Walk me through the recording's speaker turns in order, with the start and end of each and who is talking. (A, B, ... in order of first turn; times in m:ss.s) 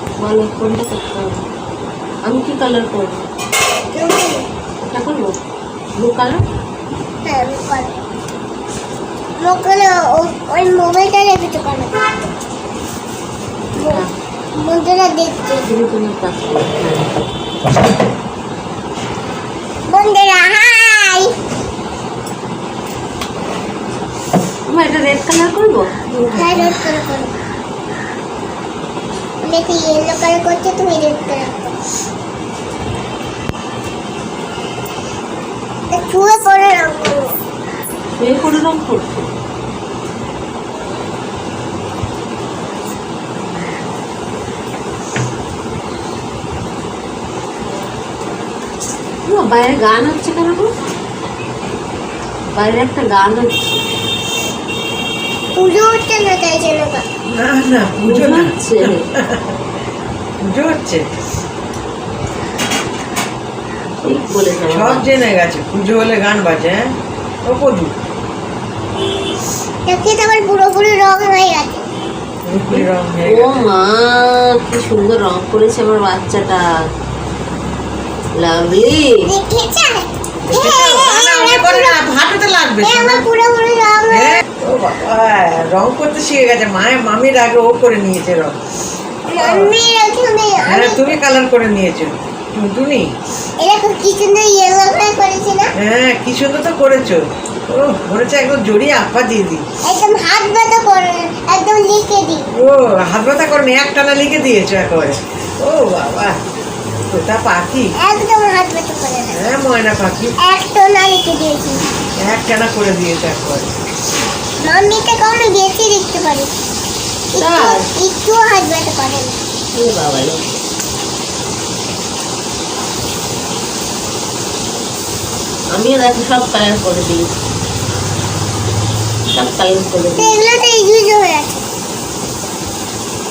0:00.2-0:01.4 A
0:02.2-0:03.3 A
0:03.9-0:04.4 B
0:04.8-0:05.4 A
0:06.0-0:06.4 A
0:07.2-0:08.0 B
0:09.4-0:12.2 B
0:13.8-0:14.0 B
0:14.6-0:15.6 B
0:15.6-0:17.1 A
0:19.9-0:21.3 B
0:24.7-0:26.8 A
0:26.3-0:27.3 B
0:29.4-0:31.8 B
0:35.9-0:37.3 B
0:38.2-0:39.3 A
0:49.2-0:50.7 A
0:52.5-0:53.8 A
0:55.5-0:57.0 B
0:57.2-0:59.5 C
0:58.0-0:59.1 A
1:00.4-1:01.1 C
1:04.0-1:05.0 A
1:04.6-1:06.9 C
1:07.4-1:07.9 C
1:09.9-1:11.9 B
1:12.4-1:13.6 C
1:12.6-1:16.6 A
1:18.4-1:19.3 A
1:19.2-1:22.0 B
1:20.4-1:23.2 C
1:22.8-1:24.4 B
1:24.1-1:28.6 C
1:29.2-1:31.2 B
1:29.3-1:29.7 C
1:30.6-1:33.1 C
1:33.6-1:35.7 B
1:35.8-1:39.6 C
1:39.8-1:42.5 B
1:42.6-1:46.4 C
1:47.1-1:47.9 C
1:48.0-1:49.4 B
1:49.3-1:50.3 C
1:50.4-1:51.8 B
1:52.2-1:53.7 C
1:54.6-1:56.5 B
1:57.3-1:59.4 B
1:57.3-1:57.9 A
1:59.7-2:00.4 A
2:05.7-2:07.3 A
2:09.3-2:10.4 A
2:10.2-2:11.6 B